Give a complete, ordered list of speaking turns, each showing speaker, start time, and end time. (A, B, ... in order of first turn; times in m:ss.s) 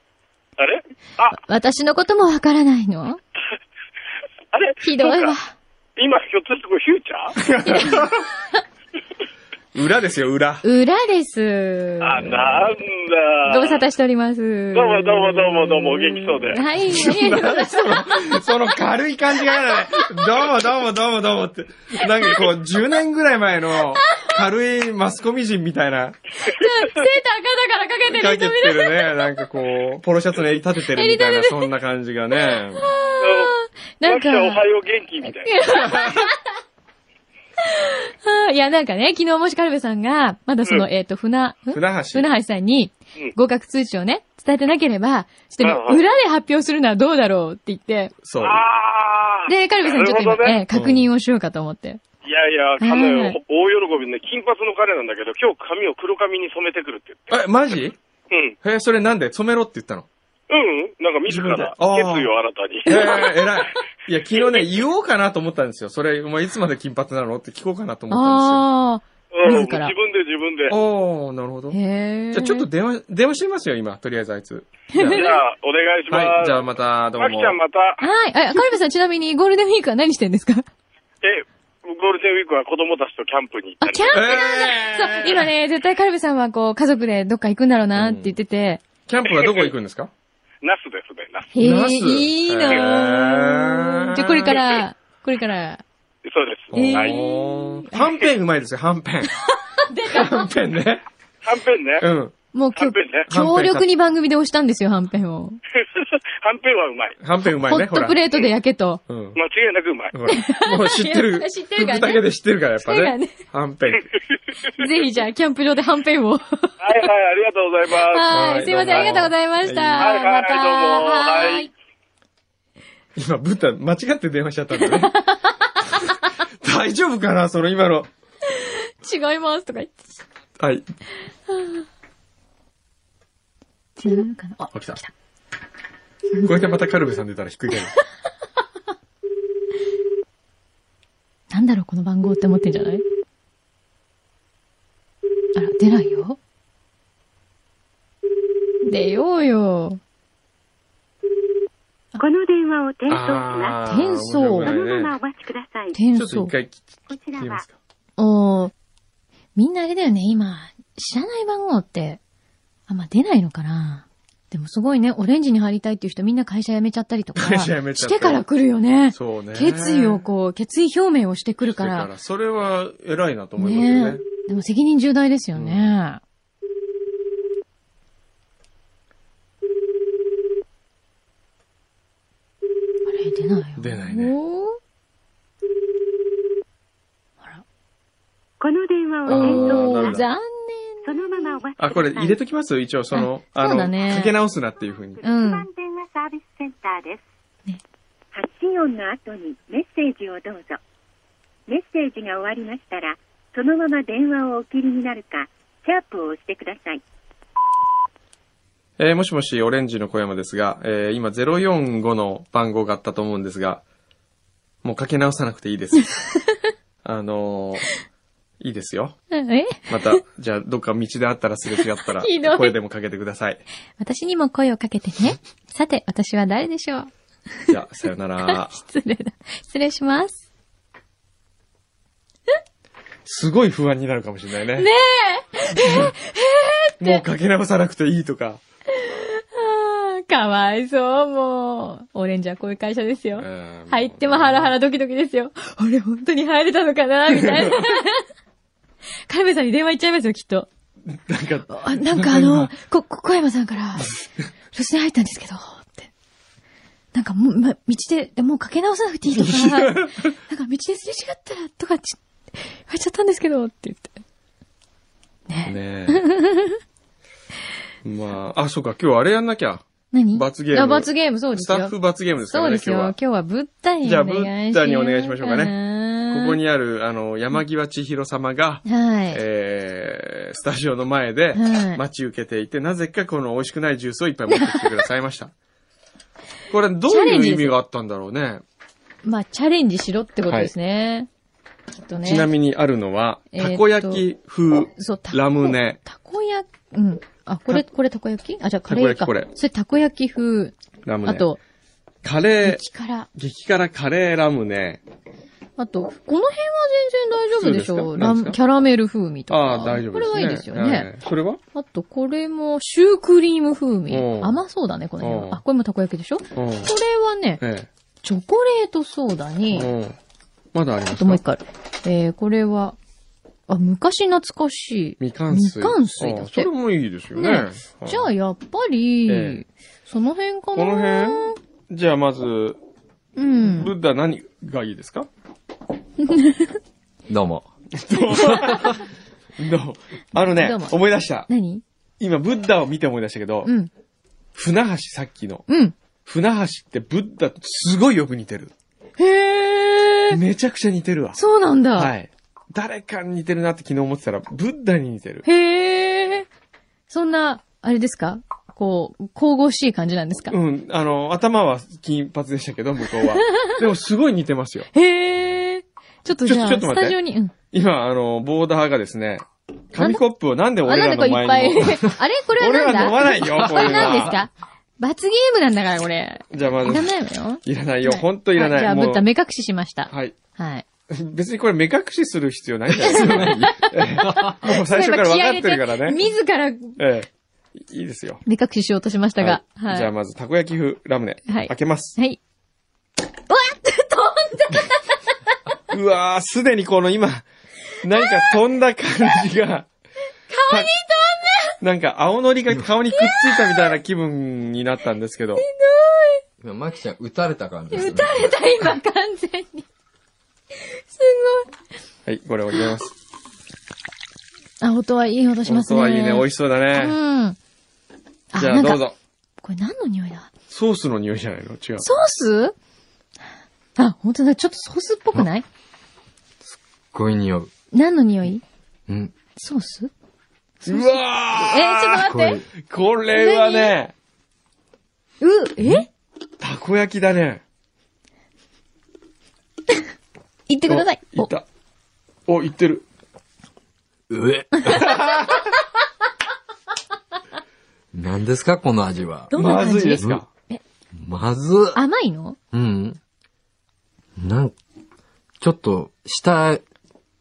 0:00.6-0:01.4 A
0:01.3-0:03.2 B
0:04.5-0:05.4 A
0:04.8-0:05.6 B
0:06.0-0:07.4 A
0:07.4-0:08.3 C
0:07.6-0:08.2 B
0:09.7-0:10.6 C
0:10.6-0:12.4 B
0:12.0-0:13.8 A
0:13.4-0:18.6 B
0:14.7-0:16.6 A
0:16.8-0:26.2 C
0:19.6-0:20.4 B
0:24.0-0:24.4 B
0:26.4-0:29.4 B
0:28.1-0:32.9 C
0:30.9-0:31.7 B
0:32.4-0:34.6 B
0:33.2-0:35.9 A
0:35.2-0:36.5 B
0:35.8-0:36.3 C
0:37.6-0:48.1 B
0:41.7-0:42.3 C
0:45.6-0:46.0 A
0:48.2-0:48.6 C
0:48.4-0:50.6 A
0:49.5-0:52.0 B
0:50.7-0:51.1 C
0:52.2-0:57.4 A
0:52.8-0:53.4 B
0:57.3-0:58.0 C
0:58.3-0:58.6 A
0:58.6-1:00.1 C
1:00.5-1:03.4 A
1:01.3-1:02.3 C
1:02.9-1:08.6 C
1:04.4-1:04.7 A
1:08.1-1:09.9 B
1:09.3-1:10.8 A
1:10.7-1:11.8 C
1:11.7-1:12.7 B
1:12.3-1:15.3 C
1:14.9-1:15.4 B
1:15.1-1:16.6 A
1:16.1-1:17.6 C
1:17.2-1:18.0 A
1:18.0-1:20.7 B
1:21.2-1:24.4 A
1:23.8-1:28.8 B
1:24.1-1:25.5 C
1:28.0-1:28.4 C
1:29.1-1:30.1 C
1:29.2-1:29.7 A
1:30.6-1:31.5 A
1:31.5-1:35.8 B
1:31.6-1:34.6 C
1:36.2-1:37.2 A
1:36.7-1:39.3 C
1:36.7-1:38.1 B
1:39.5-1:40.5 B
1:40.0-1:41.0 C
1:41.4-1:42.1 A
1:42.0-1:42.3 C
1:42.5-1:45.6 B
1:42.8-1:43.3 A
1:43.3-1:43.9 C
1:45.8-1:47.2 A
1:47.2-1:48.2 C
1:47.6-1:49.0 B
1:49.1-1:49.4 C
1:49.4-1:50.1 A
1:50.1-1:54.1 C
1:50.3-1:52.2 B
1:52.8-1:53.4 B
1:54.7-1:56.9 B
1:56.8-1:59.2 A
1:57.9-2:01.7 B
1:58.3-2:00.1 C
2:00.0-2:01.7 A
2:03.2-2:05.2 C
2:04.8-2:06.4 B
2:06.6-2:08.1 C
2:08.5-2:10.2 B
2:10.6-2:10.8 C
2:11.5-2:11.8 B
2:14.0-2:15.1 B
2:14.7-2:15.0 C
2:16.4-2:17.9 C
2:21.5-2:23.0 B
2:25.6-2:26.4 B
2:28.8-2:30.0 B
2:32.2-2:33.8 D
2:33.1-2:35.2 C
2:33.8-2:34.8 B
2:34.6-2:36.0 D
2:35.9-2:36.5 B
2:36.2-2:37.8 C
2:37.1-2:37.6 D
2:38.2-2:38.7 B
2:39.6-2:42.2 B
2:42.9-2:52.1 B
2:47.4-2:48.4 C
2:49.1-2:50.2 C
2:51.7-2:54.2 C
2:53.6-2:56.2 B
2:55.6-2:55.9 C
3:03.1-3:04.8 B
3:03.8-3:04.4 C
3:08.6-3:10.2 D
3:09.2-3:11.6 B
3:09.3-3:10.2 C
3:11.0-3:12.4 D
3:11.8-3:15.2 C
3:13.1-3:14.4 B
3:15.2-3:17.2 D
3:15.2-3:15.7 B
3:18.3-3:20.8 D
3:21.7-3:27.0 D
3:29.0-3:33.8 C
3:34.8-3:36.1 C
3:36.1-3:36.6 B
3:37.0-3:37.9 C
3:38.6-3:39.2 C
3:39.3-3:40.2 B
3:39.9-3:43.6 C
3:42.1-3:42.8 B
3:44.0-3:47.1 B
3:47.7-3:48.8 C
3:48.4-3:50.4 B
3:53.2-3:54.9 C
3:54.8-3:57.2 B
3:55.8-3:56.2 C
3:57.0-3:58.6 C
3:58.9-4:08.3 B
4:03.4-4:04.7 C
4:07.3-4:07.9 C
4:09.3-4:10.7 B
4:11.1-4:12.7 C
4:11.7-4:14.2 B
4:14.7-4:16.1 B
4:17.1-4:24.2 B
4:19.3-4:20.4 C
4:25.5-4:26.8 B
4:25.7-4:26.2 C
4:28.0-4:33.2 C
4:30.1-4:31.9 B
4:32.5-4:36.6 B
4:34.0-4:35.7 C
4:36.3-4:45.5 C
4:38.9-4:39.4 B
4:41.5-4:42.0 B
4:44.5-4:44.9 B
4:46.7-4:48.6 C
4:47.1-4:47.7 B
4:49.2-4:51.3 B
4:52.0-4:52.5 B
4:52.2-4:56.0 C
4:53.5-4:54.2 B
4:54.9-5:01.6 B
4:58.9-4:59.5 C
5:01.0-5:01.5 C
5:02.2-5:02.8 C
5:02.6-5:03.3 B
5:03.4-5:05.0 C
5:05.8-5:11.1 B
5:07.6-5:08.6 C
5:09.5-5:11.6 C
5:11.7-5:17.6 B
5:14.1-5:14.6 C
5:15.2-5:15.6 C
5:16.6-5:16.9 C
5:17.6-5:17.9 C
5:18.2-5:19.9 B
5:19.7-5:20.2 C
5:20.7-5:21.4 C
5:21.1-5:23.0 B
5:23.7-5:26.7 B
5:25.2-5:28.3 C
5:27.3-5:31.6 B
5:29.3-5:29.6 C
5:30.8-5:32.8 C
5:33.4-5:33.9 B
5:33.6-5:35.3 C
5:36.2-5:36.8 B
5:37.3-5:37.7 E
5:37.9-5:39.0 C
5:38.3-5:39.0 B
5:39.6-5:41.5 C
5:40.4-5:41.8 B
5:42.2-5:43.7 C
5:43.6-5:43.9 B
5:44.6-5:45.6 C
5:45.7-5:46.0 B
5:46.3-5:48.7 C
5:49.2-5:50.4 B
5:50.3-5:51.4 C
5:51.4-5:52.1 B
5:52.0-5:55.5 C
5:55.4-5:56.5 B
5:57.1-6:00.6 B
6:00.5-6:04.9 C
6:03.2-6:03.8 B
6:04.9-6:07.5 B
6:06.4-6:07.2 C
6:07.7-6:14.4 C
6:10.0-6:10.2 B
6:10.8-6:20.8 B
6:13.6-6:14.3 E
6:16.5-6:17.1 C
6:17.6-6:19.3 C
6:20.1-6:20.4 C
6:21.1-6:26.2 C
6:23.0-6:24.6 E
6:23.0-6:27.0 B
6:27.0-6:28.4 C
6:28.4-6:30.1 B
6:29.4-6:32.2 C
6:31.5-6:32.4 B
6:33.5-6:35.5 B
6:35.9-6:37.4 C
6:38.0-6:39.9 C
6:38.1-6:38.5 B
6:40.5-6:41.8 B
6:41.8-6:45.6 C
6:43.1-6:43.9 B
6:45.6-6:46.4 B
6:46.6-6:48.6 E
6:47.9-6:49.9 B
6:50.8-6:51.7 B
6:52.3-6:53.1 C
6:54.8-6:57.6 B
6:55.6-6:57.2 C
6:58.5-6:59.0 B
6:58.6-6:59.2 C
6:59.6-7:00.5 B
7:00.7-7:02.1 C
7:02.0-7:02.8 B
7:04.0-7:05.6 B
7:06.6-7:07.7 E
7:07.9-7:08.6 B
7:09.1-7:09.4 E
7:09.6-7:10.1 B
7:10.8-7:12.6 B
7:10.9-7:14.1 C
7:12.2-7:12.7 E
7:13.3-7:14.0 B
7:15.4-7:16.1 B
7:16.6-7:17.6 C
7:20.7-7:21.5 B
7:20.9-7:21.6 C
7:22.5-7:23.0 C
7:24.3-7:25.2 E
7:24.8-7:25.7 B
7:24.9-7:25.7 C
7:28.1-7:29.5 E
7:29.5-7:30.8 B
7:29.5-7:30.5 C
7:31.2-7:32.0 E
7:32.0-7:32.6 B
7:32.7-7:33.2 E
7:34.4-7:34.8 E
7:35.6-7:36.8 E